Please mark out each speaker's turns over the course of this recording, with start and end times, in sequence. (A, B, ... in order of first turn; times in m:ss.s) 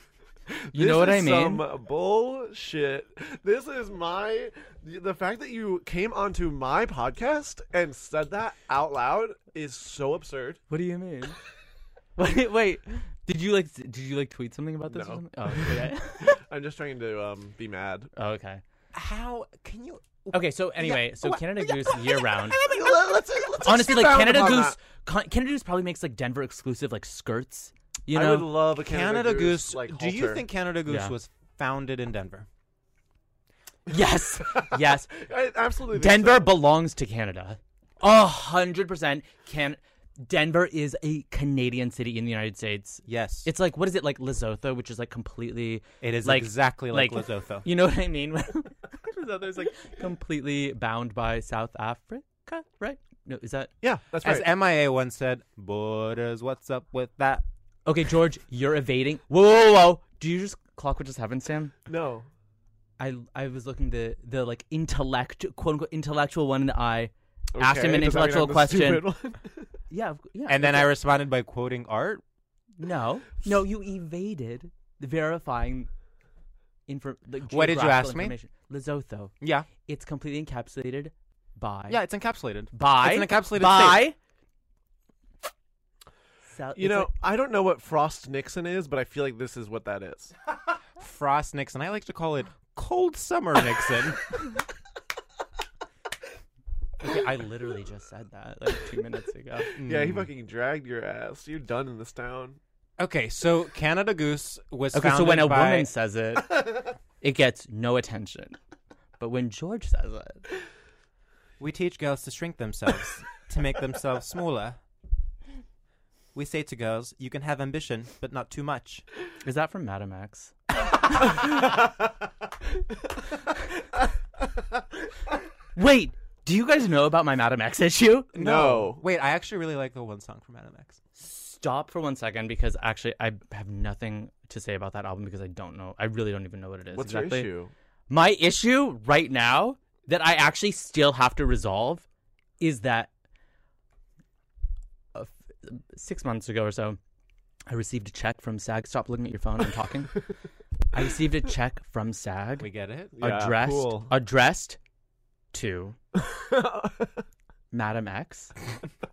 0:00.7-0:10.6 A
0:00.7-0:01.6 B
0:10.7-0:11.4 B
0:12.2-0:16.4 B
0:14.9-0:18.1 A
0:18.2-0:18.6 B
0:18.9-0:22.0 C
0:20.3-0:22.6 B
0:22.4-0:24.8 A
0:23.6-0:28.5 B
0:28.1-0:30.4 A
0:28.8-0:32.5 C
0:30.8-0:31.1 B
0:33.9-0:35.2 B
0:35.1-0:36.5 A
0:35.9-0:53.7 B
0:43.1-0:43.5 C
0:46.0-0:47.6 C
0:53.8-0:54.5 A
0:54.2-0:57.4 C
0:57.8-1:01.7 B
1:01.9-1:02.3 A
1:03.0-1:09.1 B
1:07.5-1:09.7 A
1:09.9-1:10.9 B
1:10.5-1:12.2 C
1:12.8-1:15.9 B
1:16.9-1:22.0 B
1:17.5-1:18.3 C
1:19.4-1:19.7 C
1:21.9-1:24.0 C
1:22.7-1:24.2 B
1:26.5-1:27.1 B
1:26.8-1:30.3 A
1:31.0-1:34.3 C
1:37.0-1:39.7 B
1:39.8-1:40.3 C
1:39.8-1:42.6 A
1:43.0-1:45.9 C
1:44.9-1:48.6 B
1:49.2-1:50.4 B
1:51.6-1:54.8 C
1:56.3-1:59.0 C
1:59.4-2:01.6 B
2:05.7-2:08.3 B
2:08.3-2:09.0 A
2:08.3-2:11.0 C
2:11.2-2:17.5 B
2:16.9-2:17.7 A
2:18.1-2:22.0 B
2:22.6-2:23.1 B
2:25.1-2:27.0 B
2:27.7-2:30.2 B
2:30.9-2:34.8 B
2:32.6-2:33.1 C
2:33.2-2:34.1 A
2:35.5-2:36.0 B
2:36.3-2:37.1 A
2:37.7-2:38.5 B